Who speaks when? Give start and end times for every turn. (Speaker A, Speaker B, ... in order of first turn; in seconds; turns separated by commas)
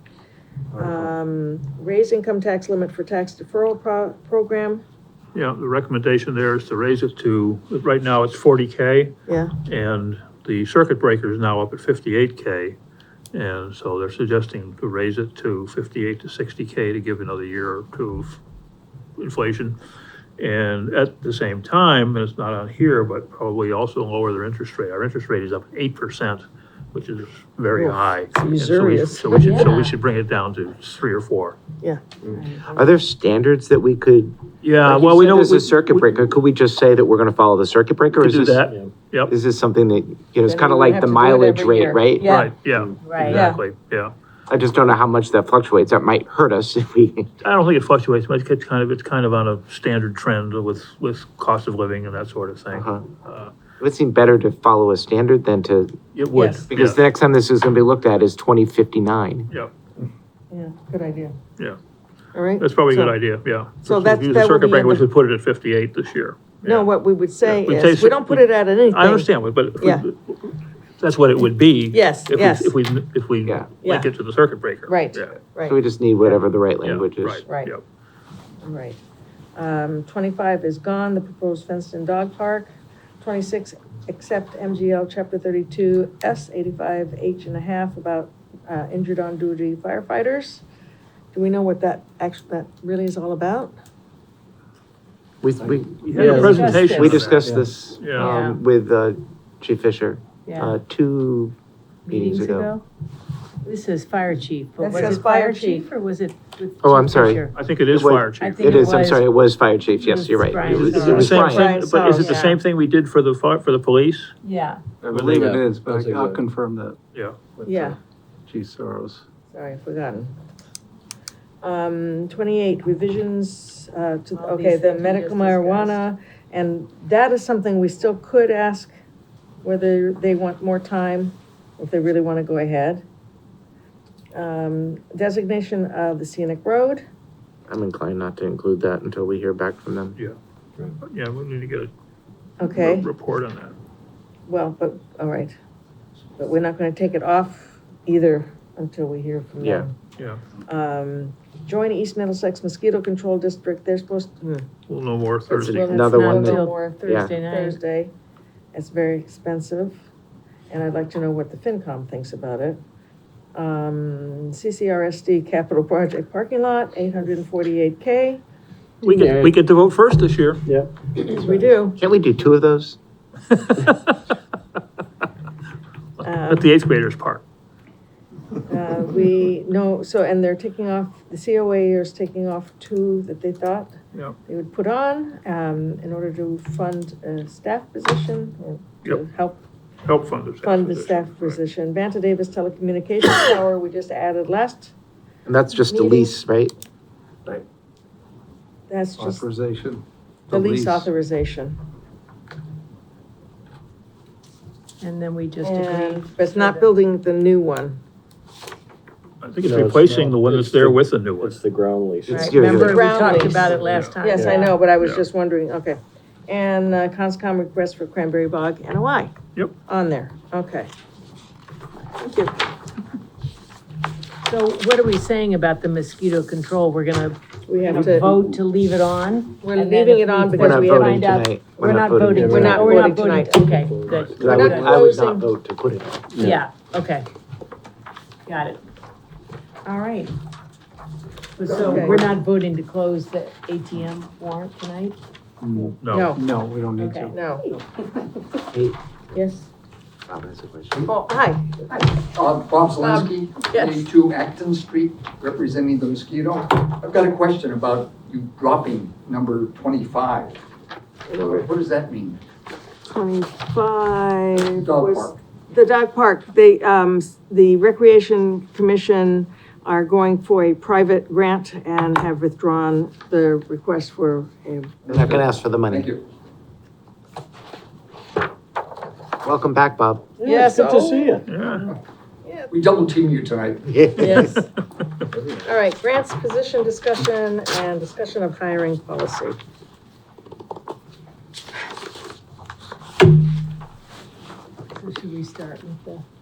Speaker A: 0.8-1.1, Speaker B: 0.8-4.8, Speaker C: 5.3-9.1, Speaker B: 9.3-9.5, Speaker C: 9.7-12.8, Speaker C: 13.3-18.4, Speaker C: 19.2-19.8, Speaker C: 20.4-31.6, Speaker B: 27.7-29.9, Speaker D: 29.5-29.9, Speaker B: 31.8-32.7, Speaker E: 32.7-38.7, Speaker C: 34.6-36.1, Speaker C: 38.1-39.3, Speaker F: 38.7-38.9, Speaker E: 39.3-42.4, Speaker B: 40.5-42.5, Speaker C: 42.2-44.1, Speaker D: 43.0-43.4, Speaker B: 43.3-43.6, Speaker E: 44.5-47.3, Speaker C: 47.4-53.5, Speaker E: 52.7-53.1, Speaker E: 53.8-56.0, Speaker C: 56.1-57.0, Speaker B: 56.3-56.7, Speaker E: 56.7-59.5, Speaker B: 60.5-61.4, Speaker B: 62.3-63.2, Speaker C: 62.6-66.9, Speaker B: 63.8-65.0, Speaker B: 66.6-70.0, Speaker C: 67.4-75.3, Speaker B: 71.9-72.8, Speaker B: 73.8-74.1, Speaker B: 74.9-75.8, Speaker E: 75.7-77.5, Speaker C: 76.8-77.8, Speaker B: 77.5-77.7, Speaker B: 78.6-79.0, Speaker B: 79.5-90.6, Speaker B: 91.3-93.7, Speaker E: 95.4-101.5, Speaker C: 96.0-97.5, Speaker F: 96.1-96.7, Speaker D: 96.1-97.3, Speaker A: 97.3-97.7, Speaker C: 98.0-98.3, Speaker D: 98.2-98.6, Speaker D: 100.5-100.8, Speaker D: 102.1-102.8, Speaker E: 102.1-102.7, Speaker D: 103.6-107.6, Speaker B: 104.8-105.9, Speaker E: 106.8-111.7, Speaker C: 107.5-108.9, Speaker D: 108.4-109.3, Speaker D: 110.0-111.5, Speaker C: 110.7-114.3, Speaker B: 110.7-112.6, Speaker D: 114.4-114.9, Speaker A: 115.0-117.0, Speaker F: 115.1-116.5, Speaker A: 117.6-117.9, Speaker B: 117.7-118.0, Speaker A: 118.5-119.2, Speaker B: 119.5-120.3, Speaker B: 121.6-128.9, Speaker D: 124.3-126.1, Speaker B: 129.6-133.0, Speaker B: 134.3-137.0, Speaker E: 137.7-140.2, Speaker C: 141.0-141.9, Speaker B: 142.6-143.1, Speaker C: 142.8-143.8, Speaker B: 144.5-145.6, Speaker B: 146.4-149.9, Speaker E: 149.6-149.9, Speaker B: 150.7-154.7, Speaker C: 154.9-155.9, Speaker B: 155.5-158.1, Speaker E: 155.5-157.3, Speaker D: 155.9-157.8, Speaker B: 158.7-160.0, Speaker B: 160.7-162.8, Speaker B: 163.6-168.4, Speaker C: 169.0-170.6, Speaker F: 169.0-169.6, Speaker F: 170.7-170.9, Speaker B: 171.4-172.0, Speaker E: 172.0-173.0, Speaker C: 173.5-174.1, Speaker B: 176.2-176.7, Speaker C: 176.5-177.4, Speaker B: 178.7-183.9, Speaker B: 184.5-189.6, Speaker C: 190.1-191.6, Speaker B: 190.6-194.9, Speaker E: 195.5-196.8, Speaker B: 198.9-199.4, Speaker A: 199.2-201.1, Speaker B: 200.5-201.8, Speaker D: 205.0-206.9, Speaker B: 205.6-208.0, Speaker C: 209.4-211.6, Speaker F: 209.6-212.5, Speaker E: 212.3-213.8, Speaker D: 212.3-214.8, Speaker B: 212.7-219.3, Speaker F: 213.6-214.6, Speaker C: 213.8-214.1, Speaker C: 215.0-215.3, Speaker B: 219.9-220.9, Speaker B: 222.2-222.5, Speaker D: 224.4-235.0, Speaker B: 227.7-228.3, Speaker B: 229.6-231.3, Speaker E: 230.6-233.0, Speaker F: 232.3-232.8, Speaker B: 232.4-233.6, Speaker F: 233.8-234.3, Speaker E: 234.3-236.5, Speaker B: 234.4-235.5, Speaker D: 236.4-237.3, Speaker D: 238.5-238.8, Speaker B: 239.8-240.3, Speaker D: 241.6-245.2, Speaker B: 241.7-242.3, Speaker A: 245.6-247.8, Speaker C: 246.0-246.3, Speaker B: 246.1-246.4, Speaker D: 247.0-247.3, Speaker B: 247.3-247.7, Speaker B: 249.3-249.7, Speaker E: 250.3-251.1, Speaker B: 251.1-251.7, Speaker G: 251.9-260.6, Speaker B: 252.9-254.1, Speaker B: 261.3-261.6, Speaker G: 261.3-262.4, Speaker B: 263.1-275.0, Speaker G: 264.7-265.4, Speaker G: 275.1-276.2, Speaker E: 275.1-276.1, Speaker E: 279.4-280.3, Speaker B: 280.4-281.7, Speaker F: 280.4-281.5, Speaker C: 281.5-281.9, Speaker B: 282.4-282.7, Speaker G: 282.7-283.9, Speaker E: 283.9-284.6, Speaker B: 284.2-284.7, Speaker B: 285.6-289.6, Speaker D: 294.9-296.2